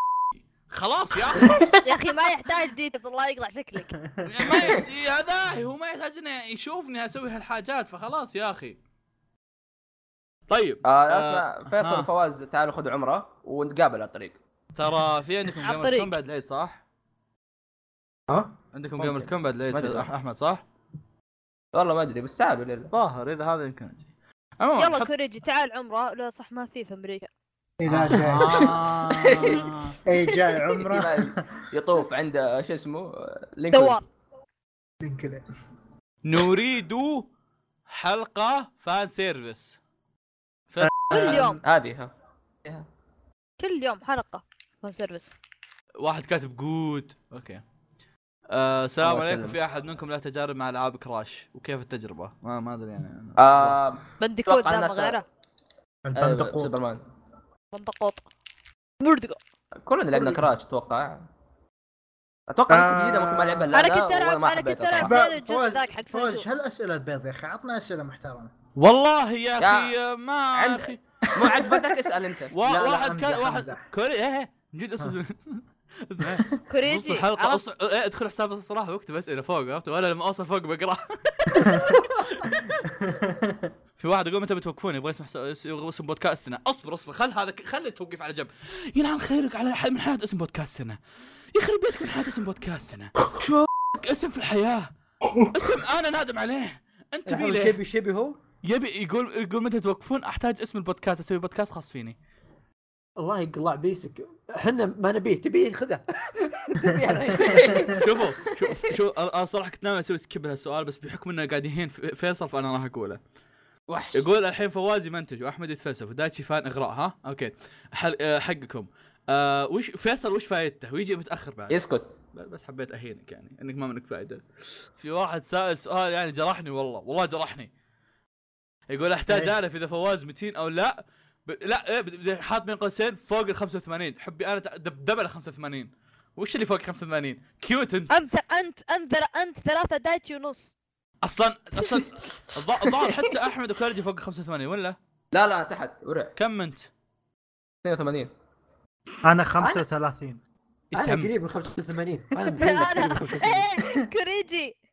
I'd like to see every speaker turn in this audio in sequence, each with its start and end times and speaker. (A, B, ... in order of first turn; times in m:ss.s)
0:00.7-0:01.6 A
0:01.4-0:01.8 B
0:01.8-0:03.9 C
0:04.0-0:04.7 B
0:04.2-0:08.8 A
0:10.5-0:12.1 A
0:10.8-0:14.4 D
0:14.8-0:16.8 A
0:15.6-0:16.1 C
0:18.3-0:20.1 D
0:18.7-0:20.6 A
0:21.7-0:22.9 D
0:22.9-0:24.1 A
0:24.6-0:25.1 A
0:24.8-0:27.3 C
0:27.8-0:28.8 B
0:27.9-0:30.0 A
0:28.5-0:29.6 D
0:30.1-0:31.4 B
0:30.7-0:34.0 D
0:33.7-0:34.0 C
0:35.0-0:35.4 B
0:36.2-0:37.3 A
0:37.9-0:39.8 A
0:40.7-0:41.4 A
0:40.8-0:41.6 B
0:41.1-0:41.6 C
0:41.6-0:42.1 D
0:43.6-0:45.4 C
0:46.0-0:47.6 A
0:48.5-0:53.8 A
0:49.0-0:49.6 D
0:53.4-0:55.2 D
0:54.2-0:55.2 C
0:56.0-0:56.7 B
0:56.2-0:57.0 D
0:57.7-0:58.2 C
0:59.0-0:59.4 C
0:59.8-1:01.3 D
1:02.5-1:05.2 D
1:02.7-1:03.7 B
1:03.7-1:06.4 C
1:05.0-1:08.5 B
1:08.8-1:11.0 A
1:09.6-1:09.9 D
1:10.6-1:12.5 D
1:11.4-1:11.9 B
1:12.5-1:22.8 A
1:12.6-1:13.9 B
1:16.7-1:17.6 C
1:21.6-1:22.0 B
1:22.9-1:23.7 B
1:24.0-1:31.0 A
1:31.5-1:33.1 A
1:33.4-1:33.7 D
1:34.0-1:34.9 A
1:35.5-1:37.8 A
1:37.3-1:38.4 E
1:38.6-1:42.2 A
1:43.2-1:48.0 E
1:47.4-1:48.0 D
1:48.0-1:53.2 A
1:53.9-1:54.2 D
1:54.1-2:01.8 A
2:01.7-2:02.1 D
2:02.3-2:07.7 A
2:08.9-2:18.1 A
2:09.3-2:09.5 B
2:18.1-2:20.7 C
2:21.2-2:25.0 A
2:25.3-2:26.3 D
2:26.4-2:26.9 A
2:27.8-2:28.3 D
2:29.2-2:30.4 B
2:30.9-2:31.3 A
2:30.9-2:33.7 E
2:32.6-2:34.7 C